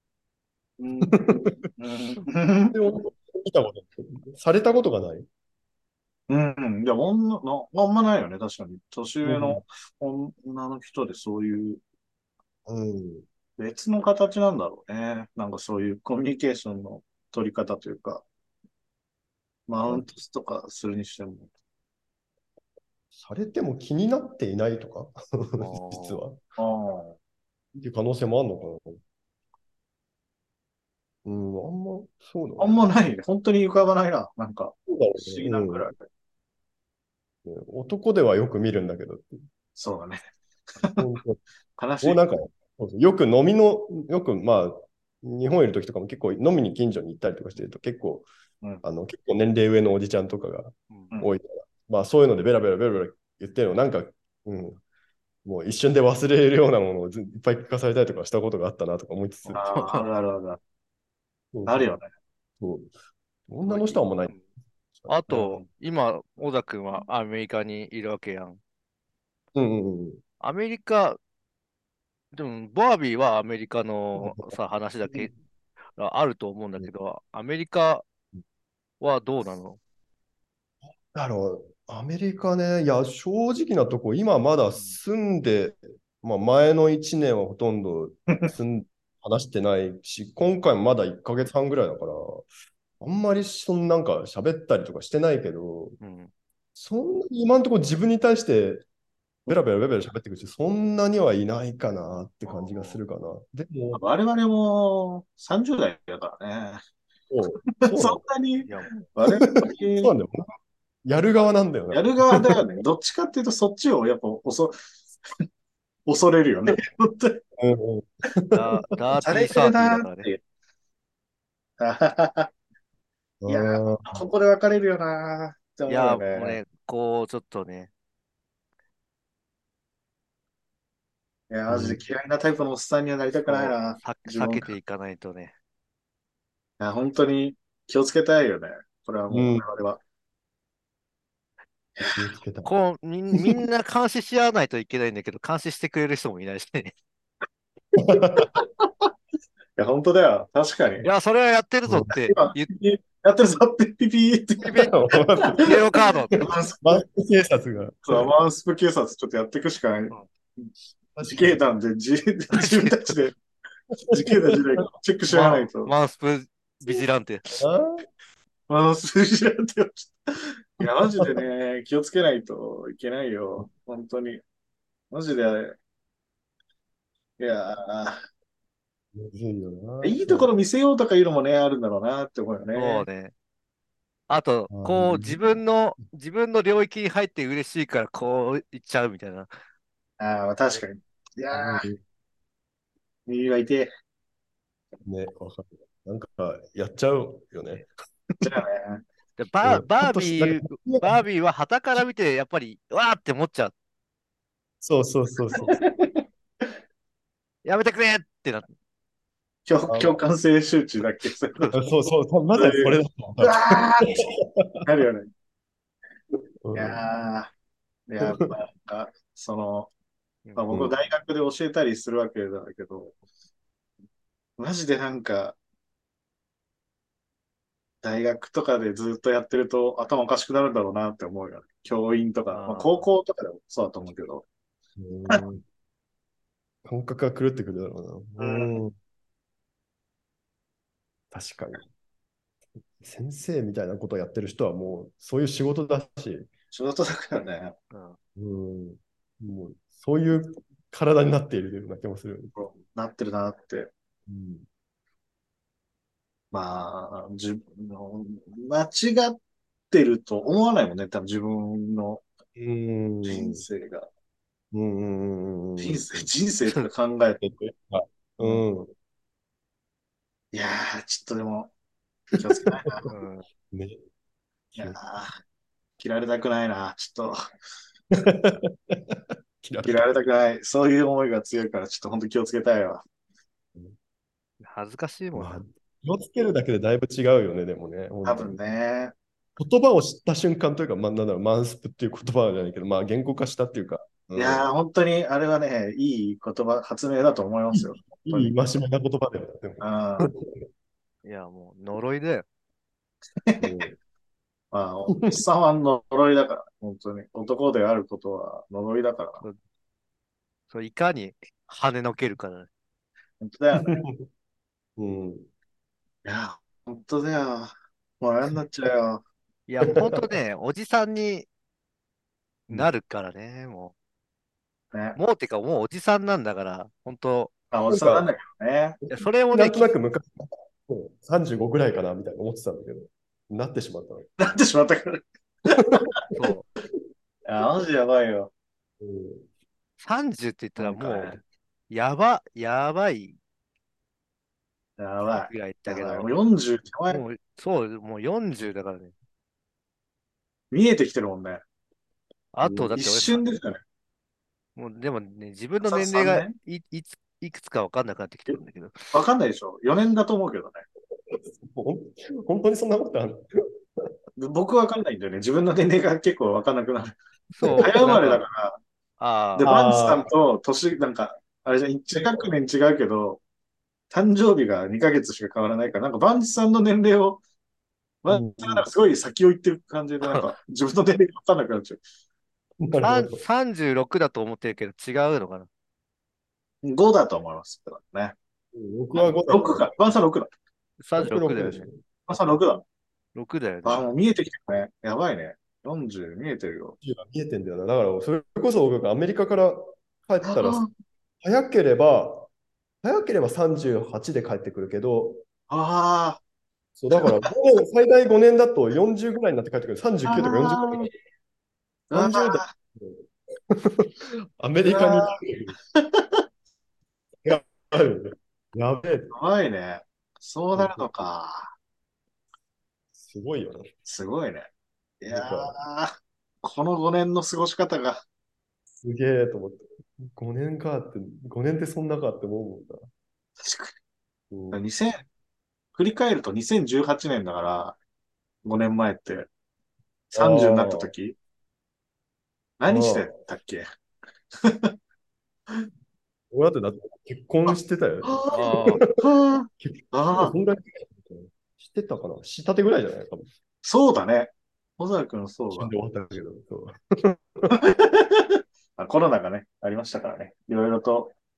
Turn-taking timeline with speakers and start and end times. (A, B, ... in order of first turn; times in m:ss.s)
0:00.8-0:01.2 A
0:01.1-0:01.6 B
0:01.8-0:02.8 A
0:02.7-0:05.3 B
0:06.3-0:11.8 A
0:09.2-0:09.6 B
0:12.7-0:13.2 B
0:13.6-0:18.2 A
0:19.7-0:21.5 A
0:23.2-0:26.4 B
0:25.6-0:26.2 C
0:26.6-0:27.2 A
0:27.8-0:29.0 B
0:31.2-0:33.0 B
0:32.6-0:36.0 A
0:34.9-0:35.9 B
0:37.4-0:39.4 B
0:39.8-0:40.3 A
0:41.0-0:41.4 B
0:41.8-0:42.2 A
0:42.0-0:48.3 B
0:48.8-0:54.8 B
0:55.4-0:59.6 B
0:59.4-1:00.0 C
0:59.5-1:00.6 A
1:01.5-1:01.9 B
1:01.7-1:02.1 A
1:02.6-1:02.9 B
1:03.5-1:04.4 B
1:03.7-1:04.4 C
1:05.0-1:05.4 B
1:05.1-1:08.6 C
1:05.3-1:05.6 A
1:09.5-1:10.2 B
1:10.4-1:11.2 C
1:12.3-1:15.3 C
1:14.2-1:14.5 B
1:16.0-1:18.0 C
1:19.0-1:19.8 C
1:21.1-1:32.5 B
1:28.3-1:28.5 A
1:33.0-1:36.0 B
1:36.0-1:36.3 C
1:36.8-1:38.8 B
1:39.5-1:44.0 B
1:42.6-1:43.0 C
1:43.9-1:46.8 A
1:47.3-1:48.2 B
1:47.7-1:50.1 A
1:48.7-1:48.9 C
1:50.0-1:50.5 B
1:51.0-1:52.6 B
1:51.9-1:54.8 A
1:56.0-1:57.4 A
1:57.6-1:58.7 B
1:58.5-2:00.3 C
1:59.2-2:00.4 A
2:01.8-2:02.5 A
2:03.4-2:04.3 B
2:03.5-2:06.6 A
2:05.9-2:07.9 C
2:11.5-2:14.8 A
2:11.7-2:12.0 B
2:13.5-2:15.5 C
2:16.8-2:20.0 A
2:19.3-2:19.6 B
2:22.2-2:22.7 B
2:22.6-2:26.9 C
2:28.0-2:28.5 B
2:29.8-2:31.0 A
2:31.0-2:32.7 C
2:31.9-2:32.2 B
2:32.3-2:35.7 A
2:34.6-2:34.9 C
2:34.7-2:35.8 B
2:35.6-2:36.4 C
2:36.3-2:38.3 B
2:36.4-2:37.0 A
2:38.0-2:40.7 A
2:41.2-2:41.6 B
2:41.3-2:43.4 A
2:42.5-2:43.0 C
2:44.1-2:44.8 B
2:44.1-2:45.9 A
2:45.3-2:47.6 C
2:47.6-2:48.0 B
2:48.7-2:54.4 A
2:51.1-2:51.4 B
2:55.1-2:55.8 A
2:57.4-2:58.2 A
2:59.1-3:00.5 B
3:00.0-3:03.0 A
3:02.8-3:03.3 C
3:04.3-3:09.5 C
3:04.7-3:05.4 B
3:10.2-3:11.9 A
3:11.5-3:12.0 B
3:13.3-3:13.9 A
3:15.0-3:17.9 B
3:18.4-3:19.0 A
3:19.4-3:23.7 C
3:19.6-3:21.2 B
3:24.8-3:25.8 B
3:25.6-3:26.1 A
3:27.6-3:28.7 C
3:29.7-3:31.7 A
3:29.9-3:30.2 B
3:31.8-3:34.8 B
3:32.6-3:34.2 A
3:34.9-3:35.3 A
3:36.6-3:37.0 B
3:36.7-3:37.5 A
3:38.1-3:39.9 A
3:38.2-3:38.5 B
3:40.6-3:43.2 A
3:44.6-3:45.6 A
3:48.0-3:54.4 A
3:52.5-3:53.0 C
3:55.0-3:55.6 B
3:56.8-3:59.0 B
3:58.4-3:58.8 A
4:01.3-4:01.8 B
4:03.0-4:06.5 B
4:06.7-4:07.8 A
4:07.9-4:08.2 C
4:08.4-4:12.5 B
4:12.5-4:13.9 A
4:14.3-4:14.7 B
4:16.5-4:19.4 A
4:19.9-4:22.2 A
4:22.6-4:23.6 B
4:23.2-4:24.1 A
4:24.7-4:26.3 B
4:25.8-4:27.4 A
4:27.4-4:28.9 B
4:30.5-4:31.7 A
4:32.3-4:33.1 B
4:32.4-4:33.1 A
4:33.1-4:33.5 C
4:33.7-4:34.0 B
4:34.8-4:35.4 A
4:36.0-4:37.4 A
4:38.2-4:40.2 B
4:39.8-4:43.0 A
4:44.6-4:45.6 C
4:45.4-4:48.6 B
4:48.2-4:49.1 A
4:49.6-4:54.7 B
4:54.4-4:58.5 A
4:57.7-5:00.5 B
4:59.8-5:00.3 A
5:01.2-5:02.5 C
5:03.4-5:03.9 A
5:03.6-5:03.9 B
5:04.7-5:09.4 A
5:05.1-5:05.4 B
5:10.7-5:12.7 C
5:13.4-5:14.0 A
5:13.8-5:14.2 B
5:15.0-5:15.5 B
5:16.2-5:19.2 A
5:19.7-5:21.5 C
5:19.9-5:20.3 B
5:22.7-5:23.9 C
5:24.9-5:25.2 A
5:25.2-5:27.5 C
5:27.7-5:29.0 A
5:27.9-5:28.3 B
5:29.0-5:34.3 B
5:29.1-5:29.9 C
5:34.4-5:36.2 A
5:36.4-5:36.7 C
5:37.5-5:38.5 A
5:39.0-5:39.5 B
5:40.0-5:43.4 C
5:40.8-5:41.4 A
5:45.0-5:47.2 A
5:45.3-5:46.3 C
5:47.1-5:49.1 C
5:50.7-5:51.6 A
5:52.5-5:53.4 C
5:52.6-5:53.0 B
5:53.0-5:53.8 A
5:54.8-5:59.1 C
5:55.8-5:56.5 A
5:59.1-6:00.8 A
6:01.3-6:03.5 B
6:04.4-6:07.2 A
6:07.5-6:08.4 C
6:07.6-6:08.2 B
6:07.8-6:08.8 A
6:09.2-6:09.7 C
6:09.6-6:13.4 A
6:09.7-6:10.3 B
6:12.1-6:12.5 B
6:14.1-6:17.4 A
6:18.2-6:22.0 A
6:18.3-6:18.9 B
6:22.8-6:23.4 B
6:23.0-6:25.7 C
6:26.8-6:28.4 A
6:28.7-6:29.9 B
6:29.1-6:30.5 A
6:31.0-6:31.9 C
6:31.2-6:32.0 B
6:32.3-6:32.8 A
6:33.4-6:34.0 C
6:33.8-6:37.0 A
6:37.0-6:40.9 B
6:40.4-6:40.9 A
6:41.4-6:42.5 B
6:43.0-6:45.4 B
6:45.7-6:46.4 A
6:47.0-6:51.1 B
6:47.2-6:47.5 A
6:50.2-6:51.1 A
6:52.1-6:52.7 A
6:52.1-6:55.8 B
6:54.8-6:55.3 A
6:56.0-6:56.4 A
6:57.4-6:59.3 B
6:59.3-7:01.7 A
7:00.8-7:01.1 B
7:03.2-7:03.9 B
7:04.0-7:04.7 A
7:05.2-7:08.2 A
7:05.3-7:05.7 B
7:09.0-7:13.0 B
7:13.6-7:14.0 A
7:14.5-7:14.8 B
7:14.7-7:15.2 A
7:16.0-7:18.0 A
7:18.6-7:19.5 A
7:20.3-7:21.4 A
7:20.3-7:21.1 B
7:22.8-7:23.8 A
7:22.9-7:23.3 B
7:24.5-7:24.9 A
7:26.5-7:28.4 B
7:27.7-7:30.5 A
7:28.5-7:29.0 C
7:29.8-7:33.5 B
7:33.8-7:35.9 A
7:35.7-7:37.7 B
7:37.7-7:41.3 A